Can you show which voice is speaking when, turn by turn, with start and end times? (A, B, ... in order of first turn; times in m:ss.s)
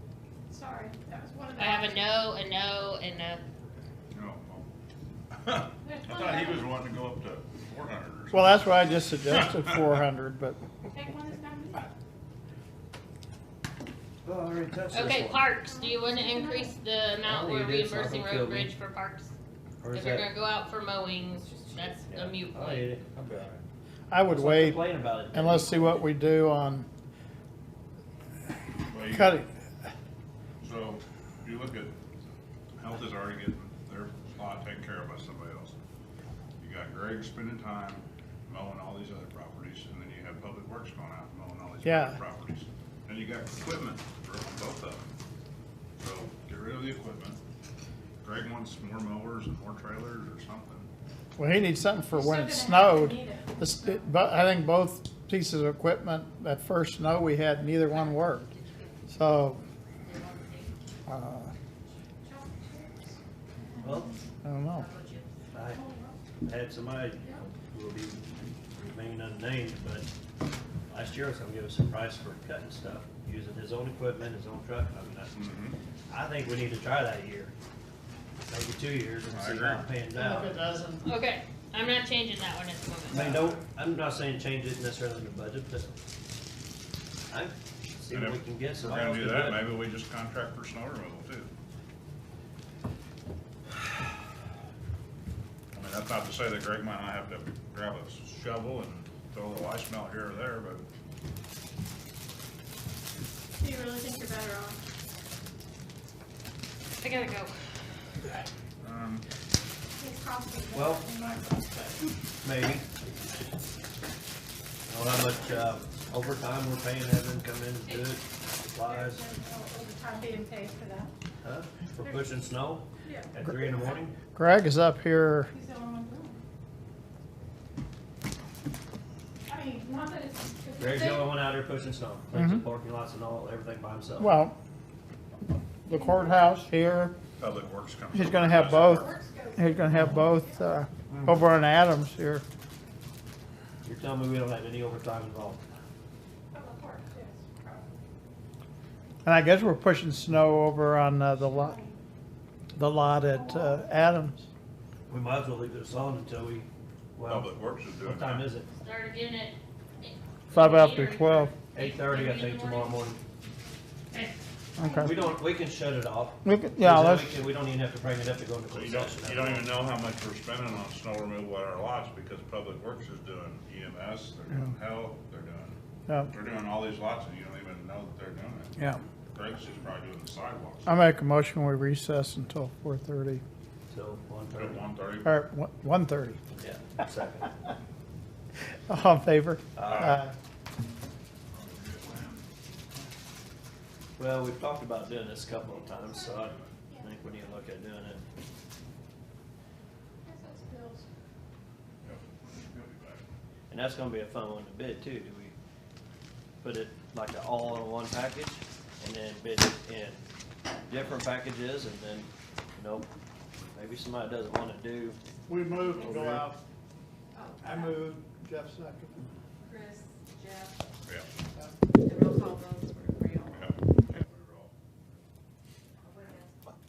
0:00.5-0:02.1 A
0:01.6-0:03.4 B
0:04.1-0:04.7 C
0:05.4-0:09.7 C
0:05.8-0:06.7 A
0:08.3-0:10.6 D
0:10.9-0:11.9 A
0:14.2-0:15.4 E
0:14.9-0:19.3 B
0:15.6-0:16.8 A
0:17.2-0:18.7 E
0:19.8-0:20.3 E
0:19.9-0:22.9 B
0:22.1-0:23.6 E
0:24.1-0:26.9 D
0:24.3-0:26.0 E
0:28.9-0:29.4 C
0:29.0-0:29.5 D
0:30.6-0:32.0 C
0:32.8-0:35.8 C
0:36.6-0:45.1 C
0:41.8-0:42.2 D
0:46.0-0:47.4 C
0:48.2-0:50.9 C
0:51.4-0:58.5 D
0:52.1-0:54.0 A
0:57.9-0:59.0 B
0:59.1-0:59.6 D
1:00.0-1:00.7 B
1:01.1-1:01.5 D
1:02.2-1:03.2 A
1:03.7-1:04.0 A
1:03.8-1:04.2 E
1:04.4-1:04.8 D
1:04.7-1:05.3 B
1:05.5-1:05.9 E
1:05.7-1:06.2 A
1:06.4-1:10.1 E
1:10.9-1:15.4 E
1:15.3-1:15.7 C
1:16.1-1:17.5 E
1:18.4-1:20.6 E
1:19.3-1:19.9 C
1:20.1-1:21.0 D
1:21.0-1:23.3 B
1:23.1-1:25.9 E
1:23.1-1:23.6 C
1:27.3-1:29.6 E
1:28.1-1:31.5 C
1:35.7-1:40.9 C
1:43.6-1:44.8 A
1:47.0-1:47.5 B
1:48.8-1:49.2 C
1:50.0-1:52.1 A
1:50.7-1:51.1 E
1:52.4-1:53.3 E
1:54.9-1:59.3 E
1:58.8-2:01.1 A
2:01.4-2:04.1 E
2:02.0-2:02.4 A
2:03.0-2:03.3 A
2:04.3-2:05.5 D
2:05.5-2:06.4 A
2:09.5-2:11.4 A
2:10.8-2:14.4 E
2:12.3-2:12.6 D
2:14.2-2:14.6 D
2:15.8-2:17.2 D
2:15.9-2:16.6 A
2:17.4-2:19.2 C
2:18.1-2:22.4 D
2:18.5-2:20.6 A
2:21.1-2:21.4 C
2:23.8-2:25.6 E
2:26.5-2:28.1 A
2:29.2-2:31.8 D
2:31.3-2:32.0 A
2:32.8-2:34.5 D
2:33.2-2:33.8 A
2:35.1-2:38.7 E
2:37.2-2:38.5 C
2:38.7-2:43.1 B
2:40.5-2:41.5 D
2:41.7-2:43.2 E
2:44.8-2:45.1 D
2:45.0-2:49.7 E
2:46.4-2:47.4 D
2:48.7-2:55.8 C
2:56.3-2:58.7 C
2:59.3-3:00.9 C
3:00.8-3:03.4 D
3:03.9-3:04.8 E
3:04.5-3:05.3 C
3:05.2-3:06.4 D
3:06.5-3:07.5 E
3:08.9-3:10.3 D
3:09.8-3:10.2 E
3:09.8-3:10.2 C
3:11.5-3:12.4 C
3:14.2-3:18.2 E
3:15.8-3:17.4 C
3:16.1-3:16.4 A
3:16.9-3:17.2 A
3:20.2-3:21.1 A
3:22.0-3:23.2 C
3:23.7-3:25.5 E
3:26.6-3:30.2 E
3:30.9-3:33.1 E
3:33.7-3:35.2 E
3:35.5-3:36.6 D
3:36.2-3:36.4 C
3:37.3-3:38.0 F
3:37.6-3:39.3 D
3:39.6-3:40.8 F
3:41.0-3:41.3 C
3:42.0-3:43.8 F
3:43.4-3:44.7 C
3:46.0-3:46.7 F